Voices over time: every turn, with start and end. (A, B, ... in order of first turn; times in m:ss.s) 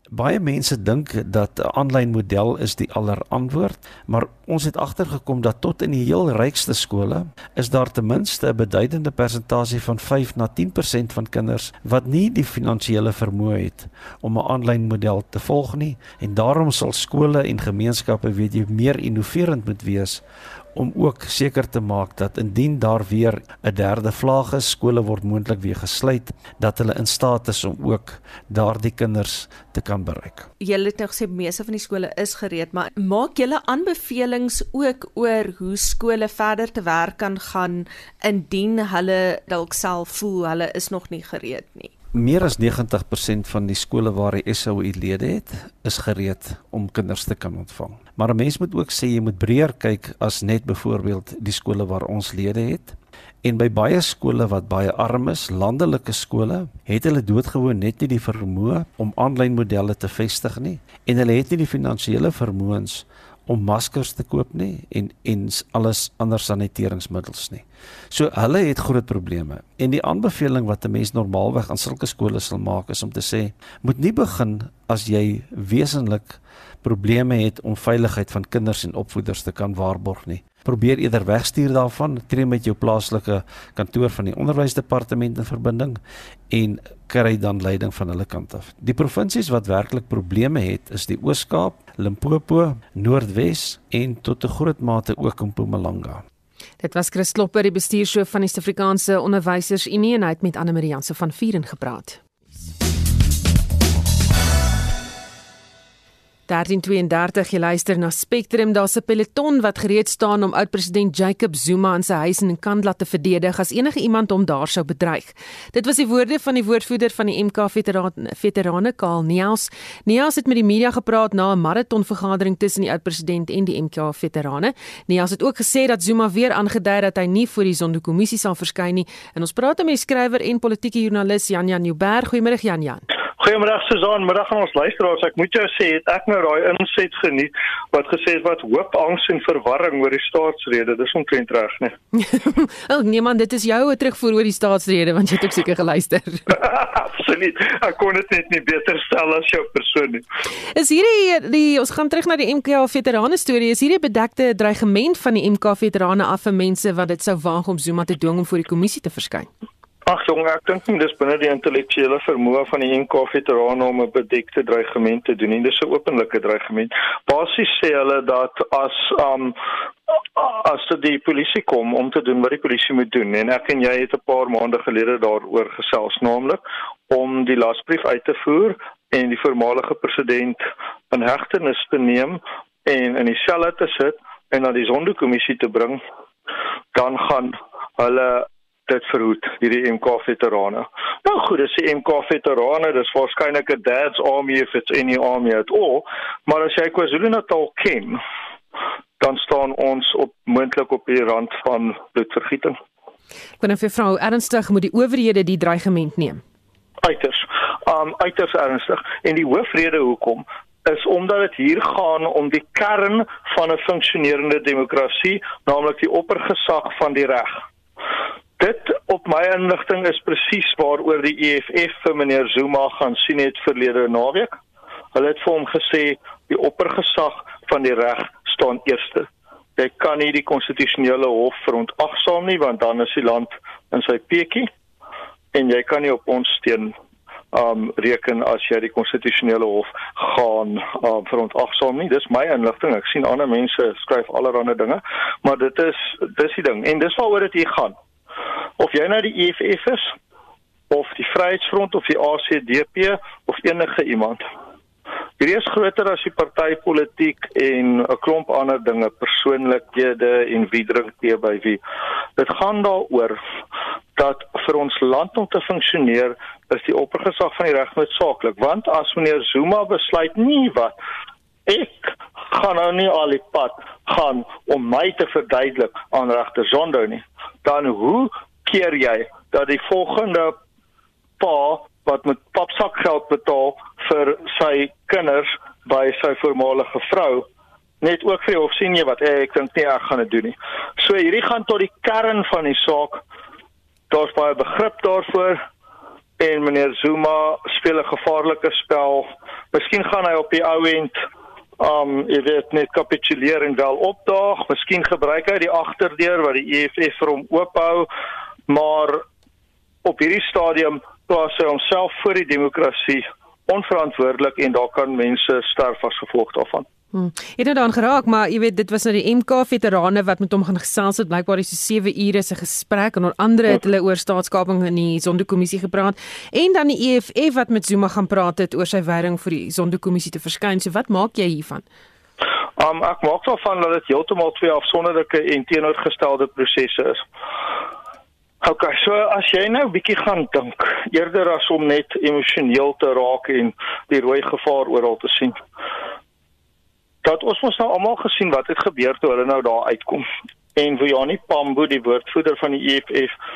0:00.1-0:20.2 A
0:20.8-0:30.5 A
0:30.6-0:41.9 B
0:42.1-1:36.2 A
1:36.8-1:42.2 C
1:46.5-2:13.0 C
2:13.4-2:21.9 D
2:22.2-2:26.4 C
2:26.5-2:30.2 D
2:30.7-2:39.5 C
2:40.1-2:49.5 D
2:50.4-3:06.0 D
3:06.9-3:18.2 D
3:19.2-3:22.8 D
3:23.6-3:26.4 C
3:27.0-3:37.6 D
3:38.6-3:44.5 D
3:45.1-3:54.7 D
3:55.5-3:56.9 D
3:57.5-4:08.0 D
4:08.8-4:10.1 D
4:10.9-4:14.4 D
4:15.4-4:21.8 D
4:22.4-4:23.4 D
4:24.2-4:31.0 D
4:31.7-4:40.5 D
4:41.4-4:47.4 D
4:48.0-4:53.2 D
4:54.1-4:55.6 D
4:56.4-5:01.2 D
5:01.8-5:08.1 D
5:08.7-5:09.2 D
5:10.0-5:16.9 D
5:17.1-5:31.8 C
5:32.8-5:37.2 D
5:38.6-5:45.6 D
5:47.2-5:50.2 D
5:50.8-5:53.3 D